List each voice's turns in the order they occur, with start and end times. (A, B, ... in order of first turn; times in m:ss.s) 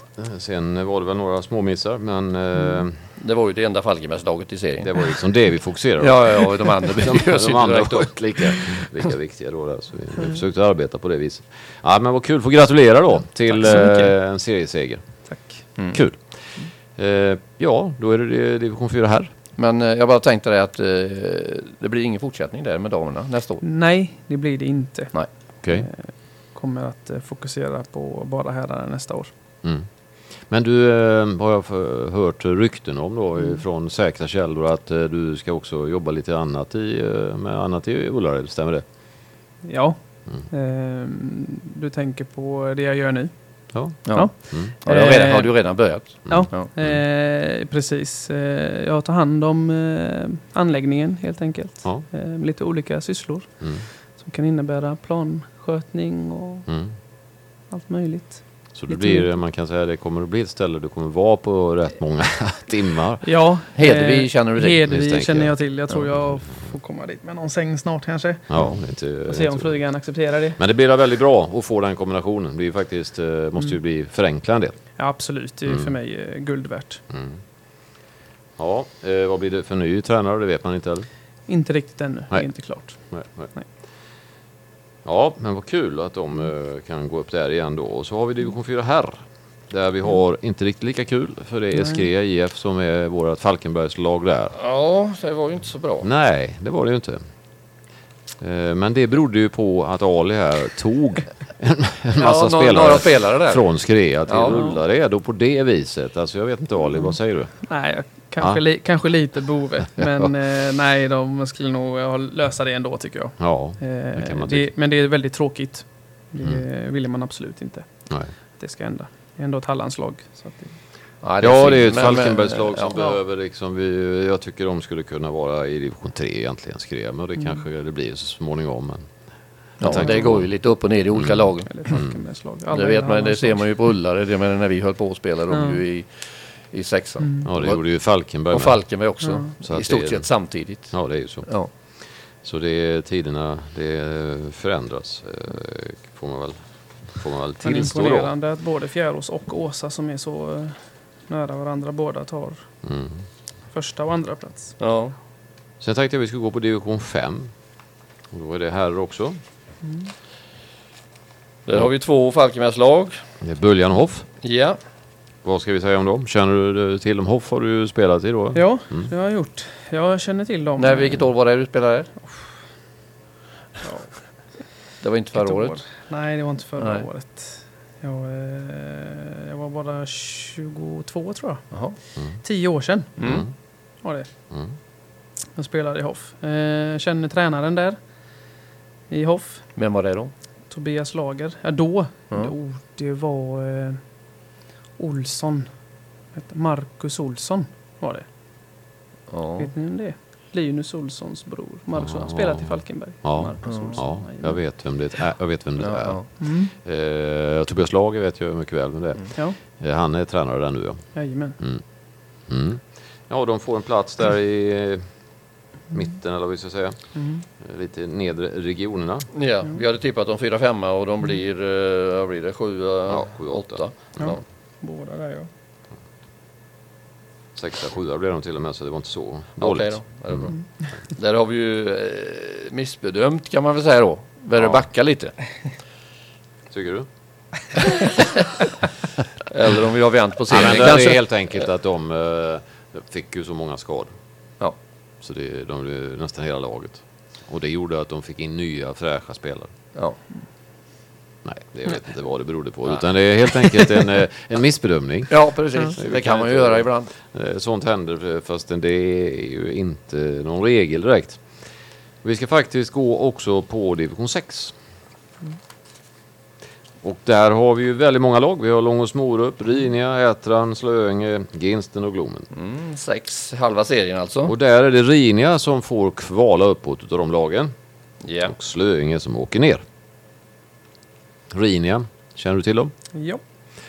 0:00.2-0:02.9 A
0:03.2-0:05.0 B
0:04.8-0:19.3 A
0:06.0-0:08.8 B
0:13.5-0:14.1 C
0:15.3-0:15.6 C
0:19.6-0:23.6 B
0:23.6-0:29.3 C
0:25.6-0:25.9 A
0:29.6-0:38.8 A
0:39.6-0:57.2 C
0:43.7-0:44.7 A
0:44.0-0:46.7 B
0:46.2-0:47.0 A
0:53.6-0:53.8 A
0:56.7-0:57.0 A
0:57.7-0:59.3 C
0:58.7-1:03.2 A
1:03.2-1:08.5 C
1:03.7-1:04.8 B
1:04.8-1:06.7 A
1:08.5-1:09.8 A
1:09.2-1:10.6 C
1:10.6-1:14.8 A
1:15.0-1:17.0 C
1:15.6-1:15.9 A
1:17.1-1:17.4 A
1:18.6-1:21.1 A
1:21.5-1:23.6 C
1:22.3-1:23.5 A
1:25.0-1:34.5 A
1:31.7-1:32.0 C
1:34.6-1:36.1 B
1:36.0-1:37.2 A
1:38.4-1:47.7 A
1:42.2-1:44.6 B
1:44.4-1:44.8 C
1:46.9-2:00.8 C
1:50.0-1:50.3 A
1:53.4-1:54.7 A
2:01.2-2:03.0 B
2:01.4-2:09.1 A
2:09.8-2:10.6 A
2:09.8-2:12.0 B
2:09.8-2:10.3 C
2:11.1-2:12.2 A
2:11.7-2:13.6 C
2:12.7-2:21.7 B
2:15.5-2:15.8 C
2:17.2-2:17.5 C
2:17.4-2:19.0 A
2:19.2-2:19.5 C
2:19.6-2:28.3 A
2:27.6-2:32.8 C
2:32.8-2:33.2 A
2:33.7-2:34.8 C
2:34.8-2:35.1 B
2:35.8-2:37.5 A
2:38.3-2:39.4 A
2:39.8-2:40.1 C
2:41.6-2:43.2 B
2:43.4-2:44.3 A
2:44.4-2:44.8 B
2:45.4-2:49.1 A
2:48.5-2:51.2 C
2:50.8-2:52.1 B
2:53.8-2:54.3 C
2:55.0-2:55.8 B
2:55.3-3:04.3 C
2:56.8-2:57.0 B
3:01.7-3:02.0 B
3:03.2-3:03.4 B
3:03.2-3:03.5 A
3:04.5-3:04.7 A
3:05.5-3:08.3 C
3:09.1-3:09.7 C
3:09.8-3:10.3 B
3:10.7-3:14.4 C
3:15.0-3:18.2 C
3:19.3-3:19.7 B
3:19.6-3:24.6 C
3:21.9-3:31.8 A
3:23.6-3:24.0 B
3:25.8-3:26.3 B
3:26.4-3:26.7 C
3:31.1-3:31.6 C
3:32.4-3:35.1 A
3:35.9-3:39.3 A
3:37.1-3:37.4 C
3:39.3-3:44.4 B
3:43.1-3:44.4 A
3:44.2-3:45.5 C
3:47.5-3:50.5 A
3:49.6-3:55.7 B
3:54.6-3:54.8 A
3:56.7-3:57.1 A
3:59.5-4:01.3 B
4:00.5-4:04.1 A
4:05.2-4:09.7 A
4:09.9-4:10.2 B
4:11.4-4:21.4 A
4:15.3-4:17.1 B
4:22.2-4:24.7 A
4:27.0-4:32.5 A
4:32.5-4:34.5 B
4:34.4-4:37.7 A
4:38.2-4:38.5 B
4:38.4-4:39.8 A
4:41.5-4:42.9 A
4:43.1-4:43.4 C